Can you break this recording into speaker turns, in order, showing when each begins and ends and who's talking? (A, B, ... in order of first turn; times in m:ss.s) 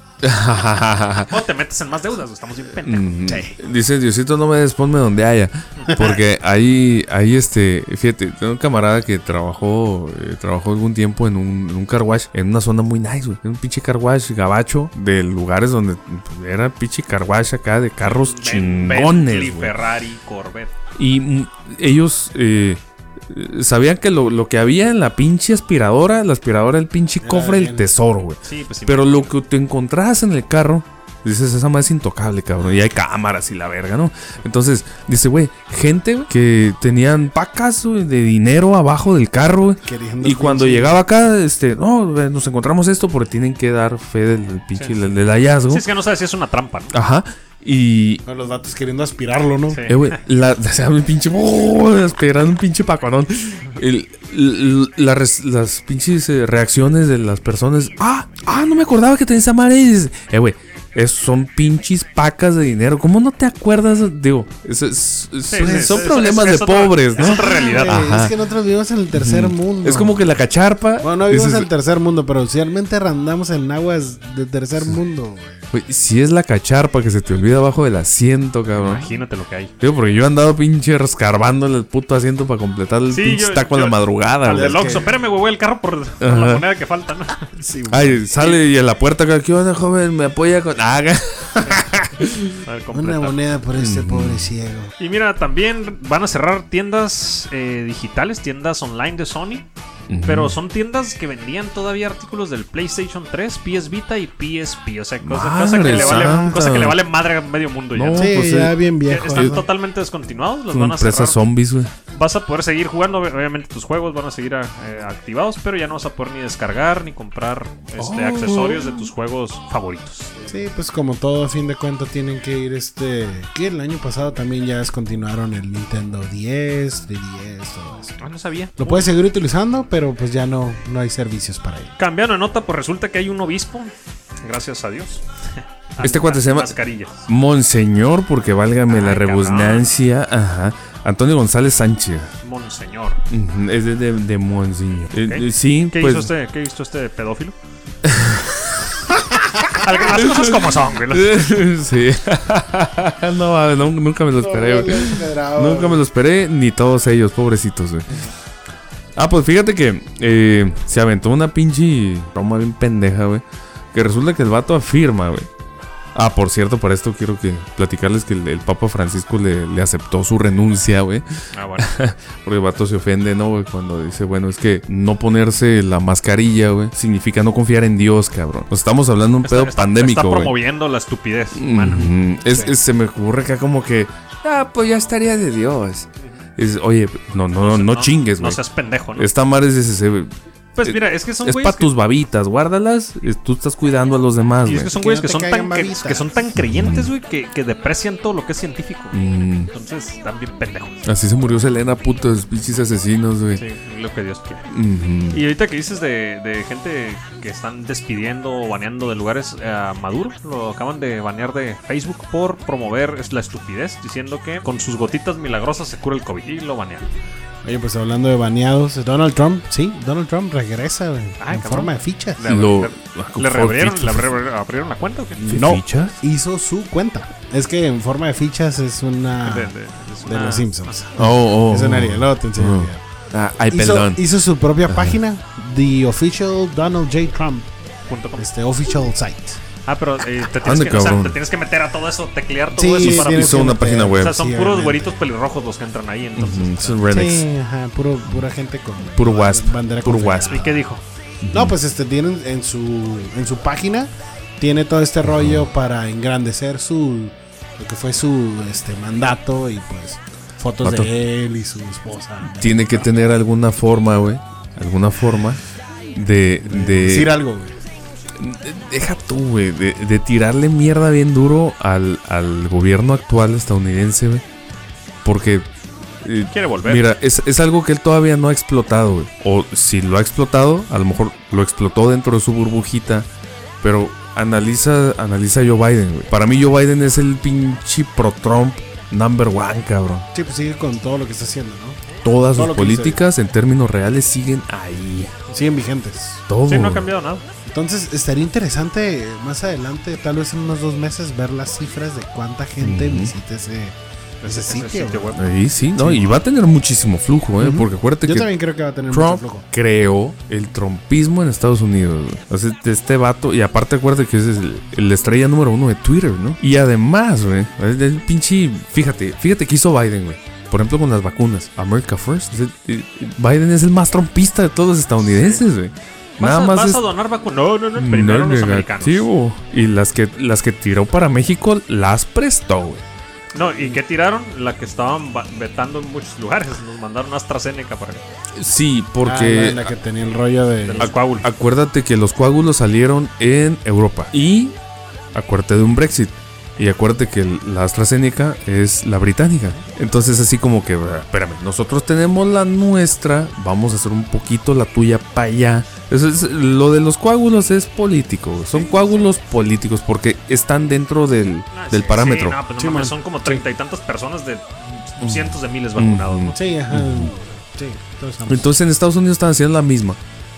0:00.2-0:01.3 A
0:01.3-0:03.2 B
0:02.8-0:19.7 A
0:03.2-0:03.5 C
0:05.9-0:06.2 C
0:18.0-0:20.7 B
0:21.0-0:45.8 A
0:27.2-0:27.9 C
0:28.4-0:29.3 B
0:39.8-0:41.0 C
0:44.8-0:45.0 B
0:45.7-0:46.9 B
0:46.9-0:48.2 A
0:48.2-0:49.8 C
0:49.7-0:50.2 B
0:49.9-1:08.3 A
1:05.5-1:08.0 B
1:05.6-1:06.1 C
1:07.2-1:10.2 C
1:09.1-1:11.7 A
1:11.0-1:15.7 C
1:15.7-1:19.1 A
1:18.8-1:19.7 B
1:19.8-1:24.9 A
1:23.1-1:27.5 B
1:24.5-1:25.1 C
1:26.2-1:26.6 A
1:27.5-1:28.3 C
1:27.9-1:32.6 A
1:32.6-1:33.4 B
1:32.9-1:34.9 C
1:33.8-1:34.5 A
1:35.0-1:39.7 B
1:40.1-1:40.5 A
1:40.2-1:48.3 B
1:45.2-1:47.0 A
1:45.8-1:46.8 C
1:47.9-1:48.8 A
1:48.1-1:49.6 C
1:49.1-1:51.4 B
1:49.3-1:49.6 A
1:50.7-1:51.9 A
1:52.1-2:00.3 B
1:58.0-1:59.1 A
2:00.4-2:08.2 C
2:08.2-2:09.1 B
2:08.8-2:11.9 C
2:12.0-2:17.2 B
2:16.0-2:22.3 A
2:18.9-2:19.9 B
2:22.4-2:23.2 B
2:23.3-2:26.3 A
2:25.1-2:27.6 B
2:28.0-2:38.1 A
2:29.7-2:31.5 B
2:34.4-2:36.0 C
2:39.2-2:45.5 A
2:46.1-2:51.2 A
2:51.5-2:51.9 B
2:51.8-3:00.5 A
2:59.4-3:02.2 B
3:01.5-3:08.6 A
3:07.6-3:09.3 B
3:09.2-3:10.3 A
3:10.8-3:11.9 B
3:10.8-3:14.9 A
3:14.6-3:19.2 B
3:14.9-3:16.4 C
3:16.6-3:17.1 A
3:19.1-3:19.7 A
3:19.7-3:21.1 B
3:21.0-3:23.6 A
3:23.6-3:24.6 B
3:24.7-3:25.4 A
3:25.3-3:37.1 B
3:37.6-3:42.4 C
3:41.4-3:45.5 B
3:42.4-3:44.3 A
3:45.4-3:46.2 A
3:45.5-3:53.0 C
3:49.4-3:51.0 B
3:51.2-3:54.2 A
3:53.7-3:57.7 C
3:54.9-3:55.2 A
3:58.1-3:58.5 B
3:58.4-3:59.6 C
3:59.8-4:07.0 B
4:00.6-4:01.4 A
4:02.7-4:05.2 C
4:03.0-4:04.3 A
4:06.4-4:07.5 A
4:07.0-4:10.8 C
4:09.1-4:10.6 A
4:10.5-4:11.0 B
4:11.4-4:11.7 A
4:11.5-4:23.1 C
4:15.2-4:15.6 A
4:20.8-4:21.1 A
4:22.5-4:25.6 A
4:26.1-4:27.3 A
4:26.6-4:27.8 C
4:28.4-4:34.4 A
4:35.2-4:35.7 A
4:36.2-4:43.3 A
4:36.5-4:37.0 B
4:43.8-4:50.3 A
4:50.3-4:52.0 C
4:52.2-4:55.3 A
4:52.5-4:53.2 C
4:55.5-4:56.4 C
4:56.5-4:57.1 A
4:56.7-4:57.4 B
4:57.6-5:05.4 C
5:02.8-5:03.3 A
5:04.4-5:05.5 B
5:05.4-5:08.5 A
5:06.0-5:06.4 C
5:07.6-5:09.6 C
5:09.1-5:27.0 A
5:25.2-5:25.6 B
5:26.4-5:29.2 B
5:28.0-5:33.0 A
5:33.5-5:38.2 B
5:38.5-5:39.9 A
5:39.2-5:41.1 C
5:40.8-5:41.5 B
5:41.0-5:44.7 A
5:45.3-6:02.6 A
5:58.7-5:59.1 B
6:01.7-6:06.6 B
6:02.8-6:03.6 C
6:05.2-6:07.3 A
6:06.5-6:08.7 C
6:08.5-6:10.2 A